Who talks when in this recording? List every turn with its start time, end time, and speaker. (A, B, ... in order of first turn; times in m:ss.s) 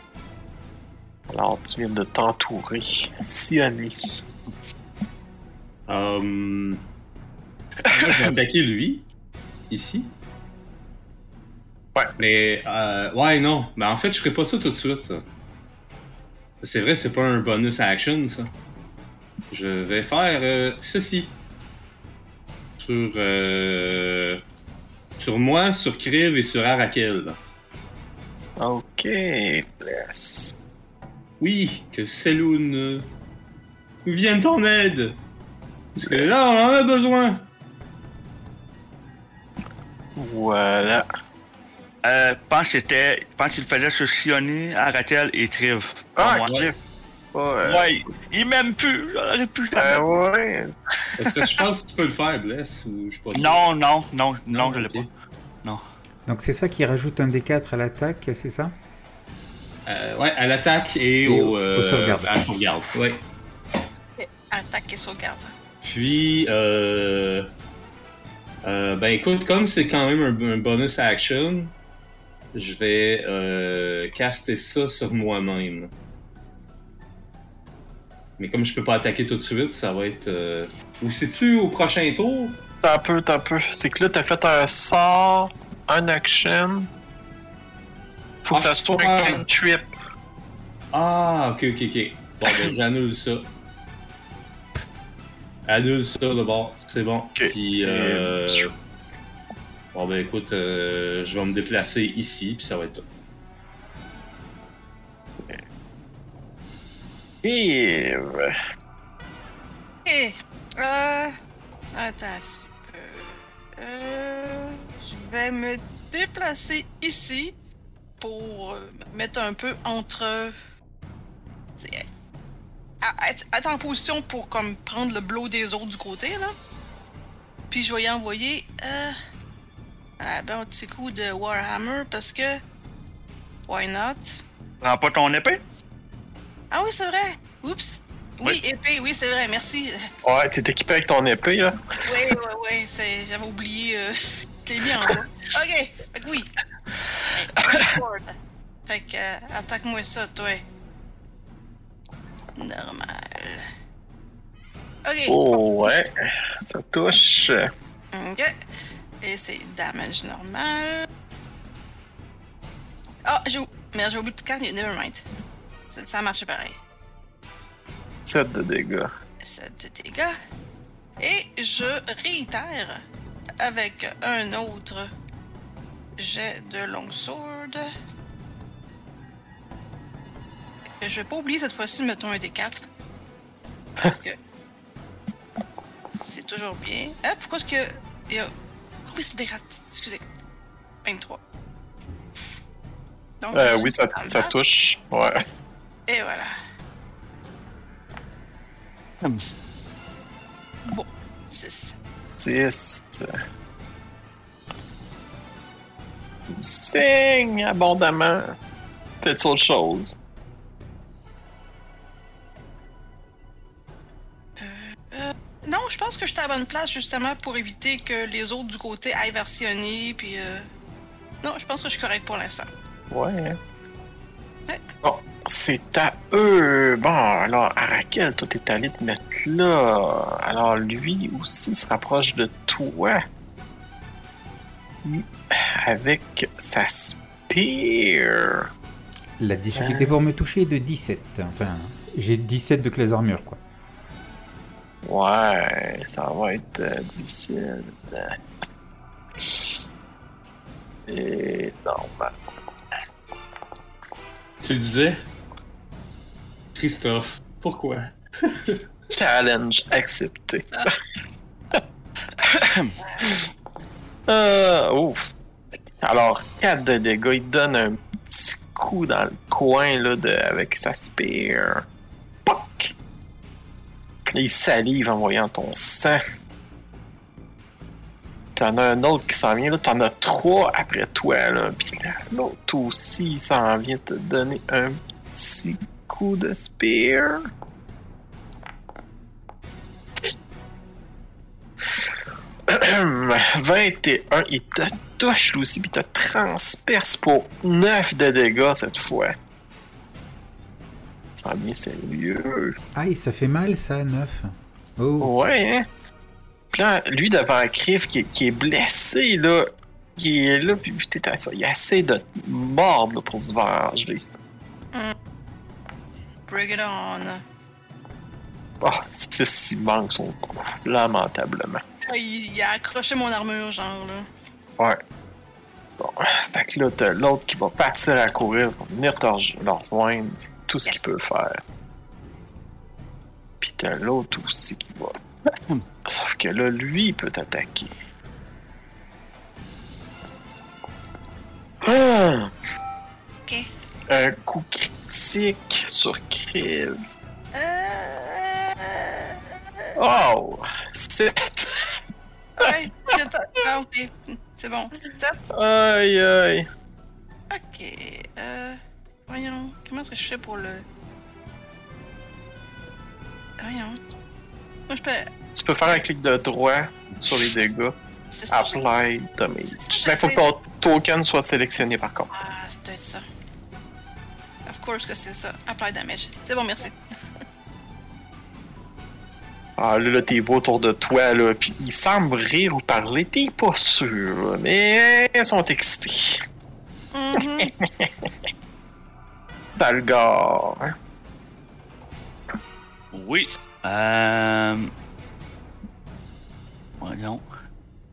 0:01.3-0:04.2 A
0:05.9-0:06.8 B
0:07.9-0:08.4 C
0:07.9-0:09.0 B
0:09.7-0:10.1 B
0:12.2-0:15.2 B
0:16.6-0:18.5 B
0:19.5-0:21.3 B
0:22.8-0:24.4 B
0:25.2-0:27.4 B
0:28.6-0:30.5 A
0:31.4-0:33.1 B
0:34.0-0:35.2 B
0:35.9-0:37.5 B
0:36.0-0:36.3 A
0:40.2-0:41.0 A
0:42.0-0:46.6 C
0:46.2-0:46.8 A
0:47.3-0:47.9 A
0:47.6-0:50.0 C
0:49.8-0:50.7 A
0:51.2-0:53.6 B
0:53.3-0:55.1 C
0:54.5-0:55.1 B
0:56.3-0:58.7 D
0:59.8-1:03.2 B
1:01.2-1:02.3 D
1:04.2-1:05.5 E
1:05.8-1:07.5 B
1:08.6-1:11.7 B
1:12.5-1:15.9 B
1:18.4-1:22.6 B
1:22.8-1:26.9 A
1:28.4-1:29.9 A
1:28.5-1:29.4 B
1:30.9-1:33.5 B
1:32.4-1:32.7 C
1:35.7-1:38.7 B
1:37.4-1:38.7 A
1:39.9-1:43.0 B
1:47.4-1:48.5 A
1:50.0-1:51.3 E
1:51.9-1:57.6 E
1:58.2-2:00.5 E
2:01.8-2:02.0 E
2:03.0-2:06.5 E
2:07.7-2:09.1 E
2:10.2-2:12.6 E
2:13.7-2:14.4 E
2:14.8-2:15.6 C
2:16.7-2:20.1 E
2:20.2-2:21.8 A
2:22.0-2:26.5 E
2:27.3-2:30.6 E
2:27.5-2:28.0 C
2:32.6-2:33.7 E
2:35.0-2:36.0 E
2:35.3-2:37.7 A
2:38.1-2:38.5 E
2:39.2-2:41.1 E
2:43.2-2:45.2 E
2:45.9-2:46.8 E
2:48.2-2:49.1 A
2:49.4-2:50.4 E
2:51.2-2:53.0 E
2:53.6-2:55.1 E
2:56.2-2:57.9 E
3:01.0-3:02.8 E
3:04.0-3:04.4 E
3:06.2-3:08.5 E
3:09.0-3:10.2 E
3:11.0-3:11.4 E
3:13.4-3:14.5 E
3:13.5-3:15.4 A
3:16.1-3:16.5 E
3:20.8-3:22.0 E
3:22.4-3:23.3 A
3:26.5-3:28.5 A
3:29.2-3:30.1 A
3:34.6-3:40.7 E
3:41.4-3:42.7 E
3:43.1-3:43.6 A
3:45.0-3:53.2 A
3:55.0-3:58.7 A
3:59.4-4:03.6 D
3:59.8-4:00.1 A
4:05.0-4:08.4 A
4:09.4-4:09.7 A
4:11.1-4:12.4 A
4:14.6-4:15.3 B
4:16.7-4:18.8 B
4:19.1-4:20.9 A
4:22.4-4:22.9 C
4:24.3-4:25.3 A
4:26.0-4:31.8 A
4:32.4-4:32.9 A
4:34.3-4:36.2 A
4:38.5-4:47.5 A
4:52.7-4:59.4 A
5:01.4-5:02.8 A
5:02.9-5:05.3 D
5:05.2-5:05.8 A
5:06.7-5:14.2 A
5:16.5-5:17.4 E
5:18.8-5:21.8 A
5:22.0-5:24.3 E
5:26.0-5:31.6 A
5:33.6-5:35.2 A
5:36.0-5:37.9 A
5:41.8-5:42.5 A
5:44.1-5:47.0 A
5:47.5-5:49.4 E
5:50.0-5:51.7 A
5:52.6-5:55.4 E
5:55.5-5:56.7 A
5:57.5-6:00.8 E
6:03.6-6:04.0 E
6:04.9-6:05.3 E
6:05.5-6:08.0 A
6:08.3-6:08.8 E
6:08.5-6:12.3 A
6:09.7-6:10.4 E
6:12.3-6:13.2 E
6:14.6-6:17.0 E
6:19.8-6:26.4 A
6:27.1-6:27.7 E
6:27.6-6:28.1 A
6:29.7-6:30.9 A
6:33.1-6:34.9 C
6:37.0-6:37.4 C